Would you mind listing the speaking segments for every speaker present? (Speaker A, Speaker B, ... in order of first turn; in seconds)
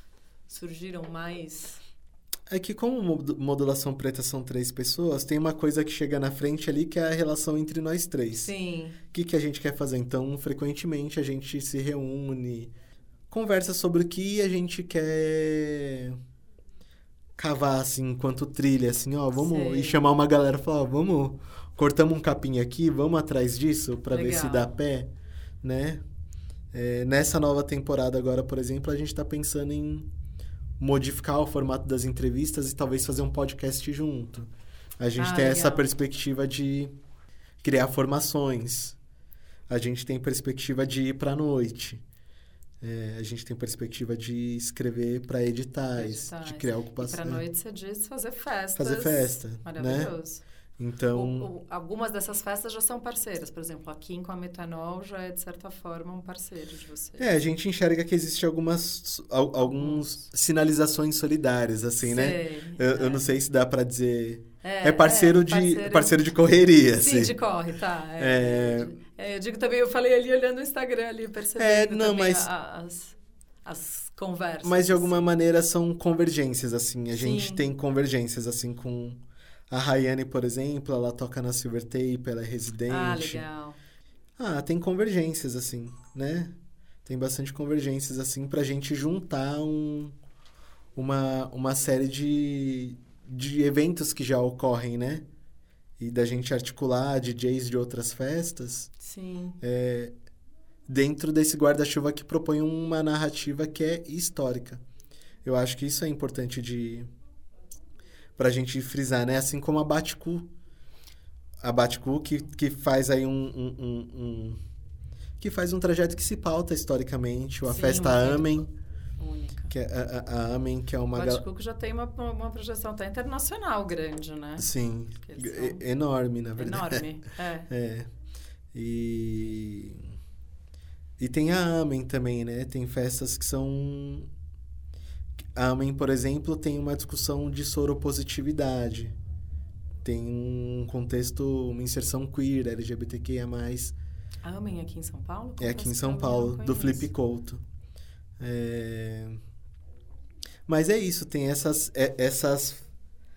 Speaker A: 0.5-1.8, 8.4-9.0, 19.3-20.0, 24.1-24.7, 35.2-35.9, 45.9-50.4, 51.1-57.3, 59.6-60.2, 62.0-63.3, 64.6-66.3, 66.9-75.3, 77.1-77.6, 82.9-83.8, 99.0-99.6, 117.6-118.6, 119.2-119.7, 121.1-125.8, 126.6-127.7, 144.4-147.1
Speaker B: 2.5-8.5, 9.1-12.7, 13.3-16.2, 17.4-25.1, 25.6-26.0, 26.7-30.1, 30.8-36.9, 37.6-39.0, 39.7-42.0, 42.8-47.4, 48.8-50.1, 50.8-51.5, 57.2-67.3, 68.2-68.9, 71.5-72.5, 74.6-83.4, 84.4-90.1, 91.0-95.2, 96.0-98.9, 99.6-100.1, 100.9-104.8, 105.4-107.1, 108.4-110.5, 111.6-114.6, 115.4-118.7, 119.7-121.4, 124.6-127.0, 127.7-128.1, 128.7-130.1, 131.2-134.3, 135.5-139.1, 140.0-143.9, 145.6-147.6, 148.4-149.4, 150.7-152.9